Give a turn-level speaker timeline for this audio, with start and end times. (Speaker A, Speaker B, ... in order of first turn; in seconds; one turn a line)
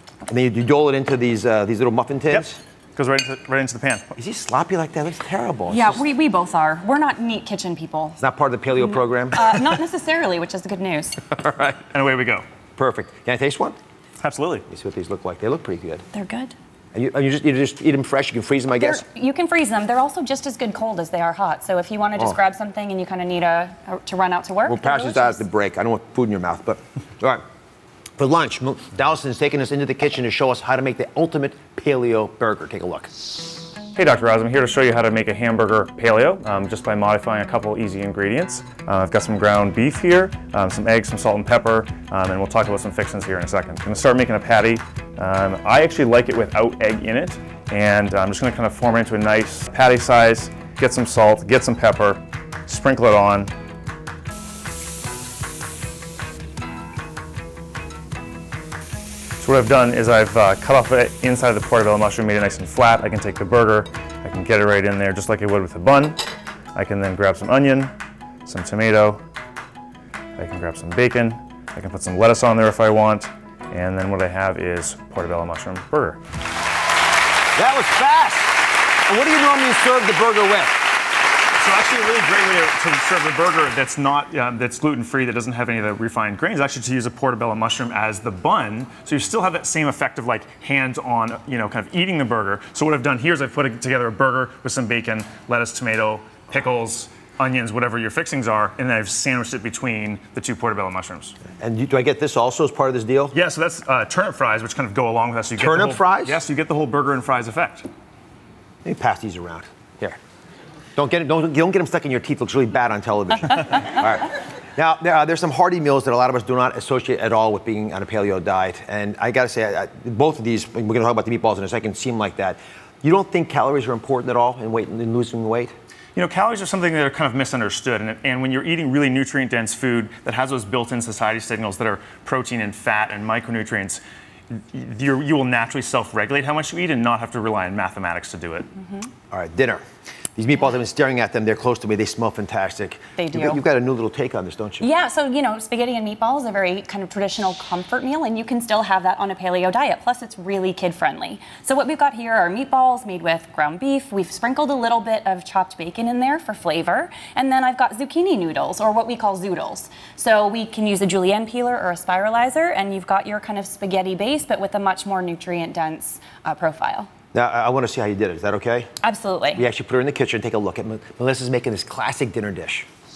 Speaker A: 0.3-2.6
Speaker B: 2.3-4.1
Speaker A: 4.2-6.0
Speaker C: 5.7-8.2
Speaker A: 8.2-9.8
Speaker C: 9.3-11.2
Speaker A: 11.3-11.8
Speaker B: 11.9-12.4
Speaker A: 12.8-13.8
Speaker B: 14.2-14.7
Speaker A: 14.7-16.1
Speaker C: 16.1-16.6
Speaker A: 16.9-19.0
Speaker C: 18.8-25.4
Speaker A: 24.6-27.4
Speaker A: 28.2-33.1
Speaker B: 34.0-53.5
Speaker B: 59.4-66.2
Speaker B: 66.8-67.9
Speaker B: 68.5-69.2
Speaker B: 70.4-76.2
Speaker A: 77.6-78.5
Speaker A: 79.1-80.8
Speaker B: 81.6-101.4
Speaker A: 101.6-103.4
Speaker B: 103.3-107.9
Speaker A: 105.6-106.4
Speaker A: 108.8-110.2
Speaker A: 111.0-125.7
Speaker B: 126.2-134.0
Speaker B: 134.5-138.7
Speaker A: 139.3-139.8
Speaker A: 140.4-144.9
Speaker C: 143.2-143.6
Speaker C: 144.8-167.1
Speaker A: 167.3-168.9
Speaker C: 169.0-169.6
Speaker A: 169.6-172.9